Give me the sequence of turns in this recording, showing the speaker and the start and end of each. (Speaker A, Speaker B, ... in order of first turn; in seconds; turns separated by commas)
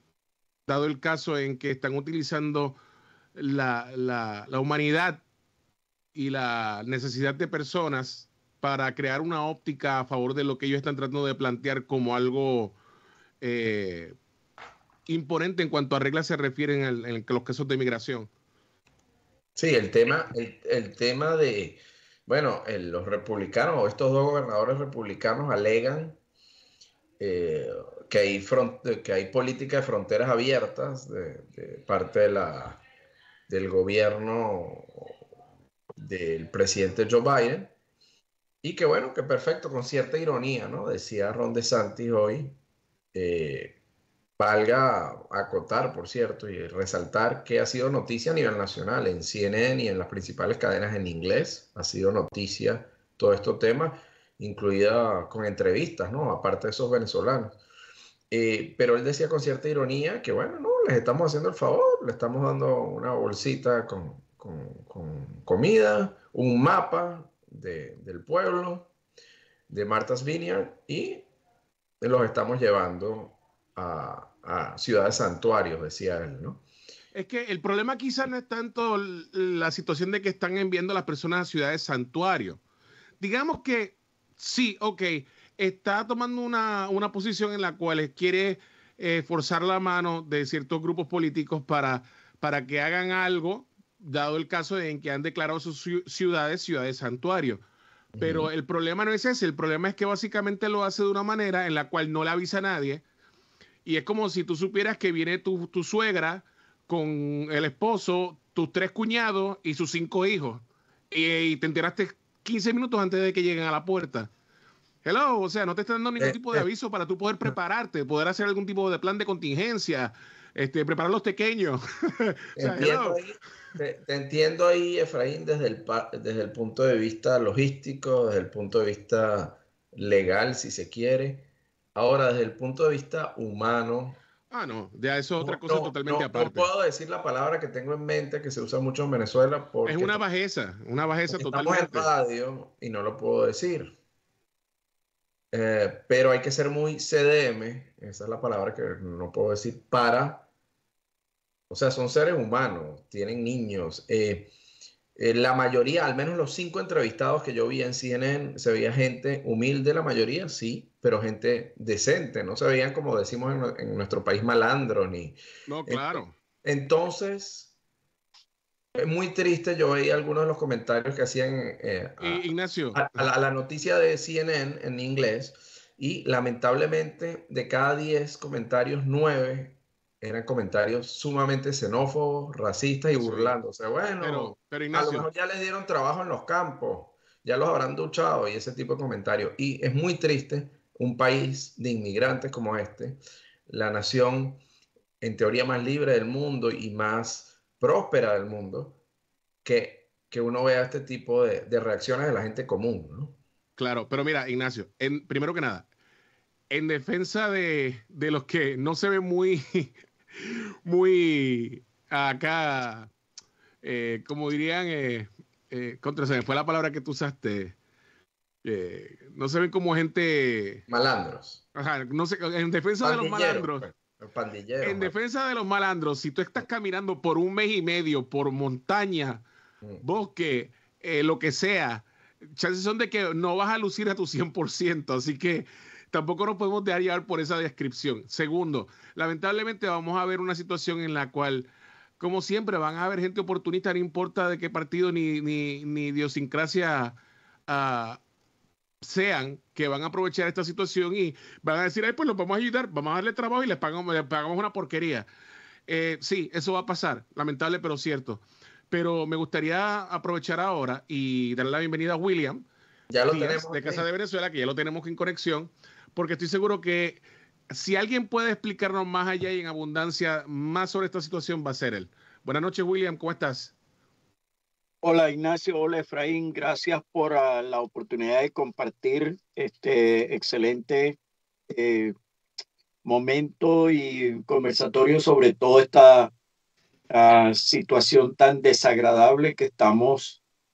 Speaker A: 0.7-2.8, Speaker A: 3.4-5.2, Speaker A: 6.1-12.8, Speaker A: 13.4-14.2, Speaker A: 15.1-18.3, Speaker B: 19.6-26.2, Speaker B: 27.2-32.8, Speaker B: 33.5-35.2, Speaker B: 36.0-37.7, Speaker B: 38.6-42.6, Speaker B: 43.1-43.8, Speaker B: 44.4-57.6, Speaker B: 58.3-68.9, Speaker B: 69.7-71.2, Speaker B: 72.0-76.6, Speaker A: 77.1-82.6, Speaker A: 83.2-97.6, Speaker B: 98.1-98.5, Speaker A: 98.2-103.0, Speaker A: 103.8-114.3, Speaker A: 115.0-123.2, Speaker B: 116.2-116.7, Speaker B: 122.6-134.2, Speaker A: 134.5-136.7, Speaker B: 135.4-140.2, Speaker A: 139.8-142.1, Speaker B: 141.3-143.9, Speaker B: 145.5-150.5, Speaker B: 151.7-154.5, Speaker B: 155.2-167.7, Speaker A: 165.7-166.3, Speaker B: 168.9-194.6, Speaker A: 172.2-173.3, Speaker A: 183.2-183.6, Speaker A: 184.2-185.3, Speaker B: 195.2-199.0, Speaker B: 199.6-203.4, Speaker A: 203.8-205.9, Speaker A: 206.7-213.1, Speaker A: 213.8-217.8, Speaker A: 218.6-220.8, Speaker B: 220.9-221.6, Speaker A: 221.7-223.8, Speaker B: 223.0-225.1, Speaker A: 224.8-229.4, Speaker A: 230.0-241.7, Speaker A: 242.2-247.2, Speaker A: 247.7-248.2, Speaker A: 249.0-255.3, Speaker A: 255.9-262.6, Speaker B: 263.1-264.1, Speaker A: 263.3-273.7, Speaker C: 275.0-281.2, Speaker C: 281.7-282.1, Speaker C: 283.0-286.3, Speaker C: 287.1-290.4